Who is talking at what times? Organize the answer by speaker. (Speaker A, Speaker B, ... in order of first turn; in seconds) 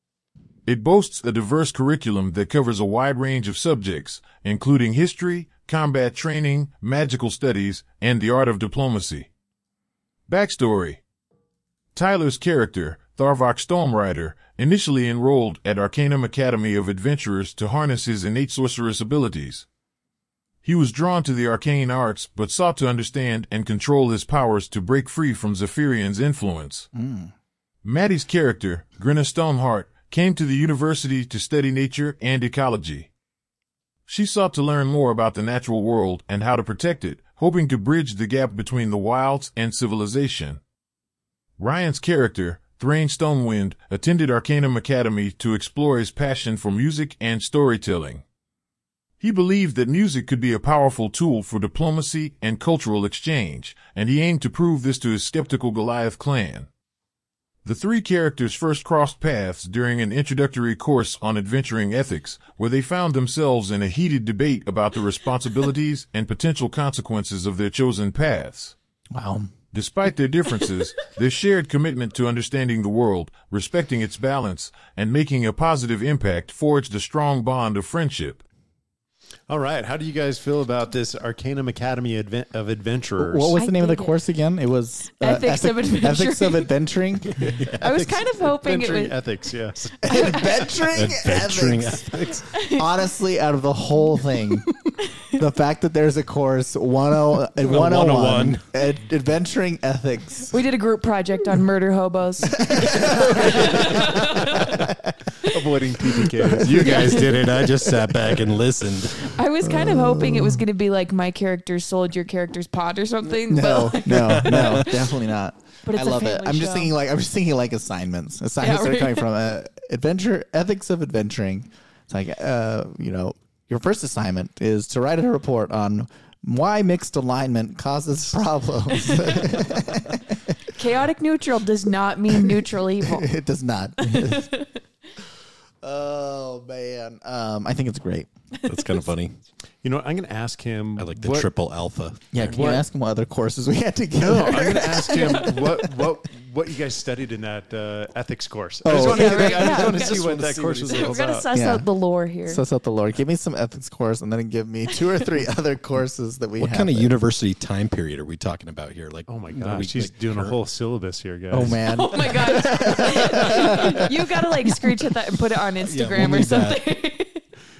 Speaker A: 0.7-9.3, 10.3-11.0, 11.9-19.6, 20.6-26.9, 27.8-33.1, 34.1-40.6, 41.6-48.2, 49.2-56.7, 57.6-68.7, 69.7-78.4
Speaker B: 26.9-27.3, 69.1-69.5, 83.2-87.6, 90.0-94.7, 95.3-100.5, 102.6-104.0, 104.5-105.1, 109.6-110.6, 113.5-130.6, 132.5-134.5, 135.8-138.3, 142.3-145.7, 148.8-149.5, 150.1-150.4, 151.5-151.9, 152.4-157.1, 161.5-164.0
Speaker C: 79.5-83.6, 87.4-90.7, 105.4-107.4, 139.8-141.5, 142.4-142.8, 144.2-151.5, 159.3-161.8
Speaker D: 83.5-84.2, 85.2-86.7, 87.7-89.3, 90.1-90.5, 92.5-93.0, 100.5-104.7, 106.8-107.3, 109.2-115.0, 115.8-116.9, 118.6-119.3, 130.7-133.3, 134.0-134.8, 138.6-138.9, 144.6-145.7, 148.9-152.6, 161.9-167.4
Speaker E: 87.5-87.8, 90.9-92.5, 97.6-98.6, 106.6-109.4, 114.1-114.9, 138.7-139.3, 141.0-142.4, 149.0-151.1, 156.6-160.6, 165.8-166.9